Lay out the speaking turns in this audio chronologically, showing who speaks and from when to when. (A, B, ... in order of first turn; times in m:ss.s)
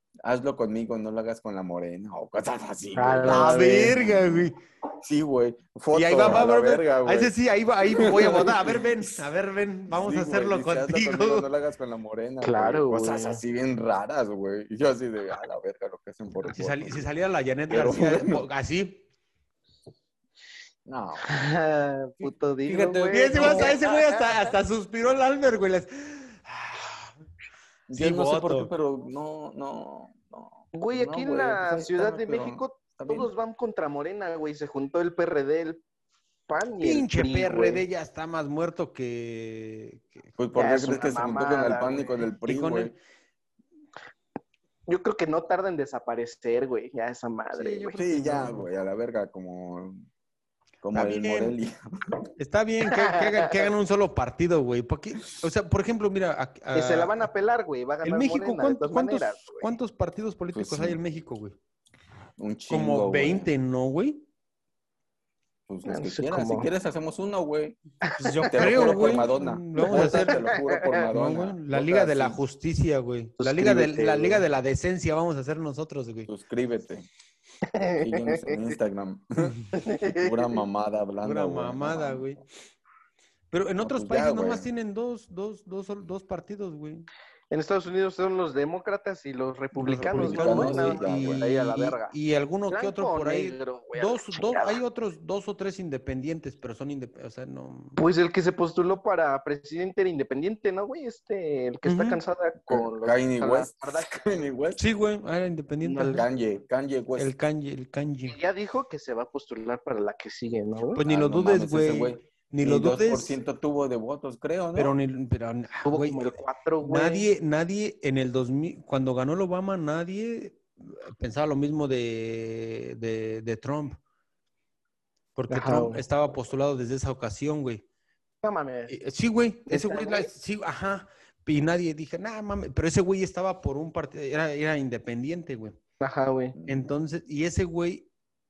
0:00.2-0:09.2 A
0:03.0-0:04.0 B
0:03.2-0:04.6 C
0:05.9-0:11.5 C
0:09.9-0:17.1 A
0:12.4-0:13.4 B
0:16.4-0:19.0 C
0:17.7-0:18.4 A
0:20.8-0:21.3 A
0:21.2-0:24.5 B
0:22.7-0:27.1 C
0:23.3-0:23.7 A
0:27.9-0:33.3 A
0:27.9-0:28.7 C
0:30.7-0:35.8 B
0:36.5-0:37.8 B
0:36.8-0:40.2 C
0:40.4-0:42.9 A
0:40.6-0:42.2 B
0:42.4-0:43.0 C
0:44.9-0:48.0 B
0:47.5-0:48.7 C
0:48.0-0:50.0 A
0:50.8-0:52.2 A
0:50.9-0:51.5 C
0:52.4-0:57.2 C
0:53.0-0:53.7 B
0:56.7-0:59.7 B
0:58.0-1:01.5 C
1:00.5-1:01.0 A
1:02.4-1:03.5 A
1:02.7-1:04.2 C
1:05.7-1:07.8 A
1:05.8-1:06.7 B
1:08.0-1:09.2 B
1:08.2-1:16.3 C
1:08.4-1:12.4 A
1:09.8-1:11.0 B
1:13.4-1:14.4 B
1:16.3-1:17.1 A
1:17.7-1:18.8 B
1:18.0-1:19.5 A
1:19.4-1:19.7 C
1:19.7-1:20.6 B
1:20.1-1:22.4 A
1:21.2-1:22.4 C
1:23.5-1:27.1 C
1:23.8-1:24.7 A
1:27.5-1:32.1 B
1:29.7-1:38.0 C
1:30.1-1:31.4 A
1:32.7-1:34.8 B
1:38.0-1:44.3 B
1:41.8-1:42.2 C
1:42.7-1:44.8 A
1:44.8-1:46.2 C
1:45.8-1:46.2 B
1:46.0-1:47.3 A
1:47.2-1:48.4 C
1:48.3-1:51.0 B
1:51.0-1:53.4 C
1:51.0-1:54.9 A
1:54.7-2:04.0 C
1:55.8-1:57.3 B
2:05.4-2:07.8 C
2:05.5-2:06.0 B
2:08.4-2:08.9 B
2:08.9-2:15.8 C
2:09.7-2:10.3 B
2:16.0-2:16.6 B
2:16.5-2:16.9 A
2:16.7-2:18.1 C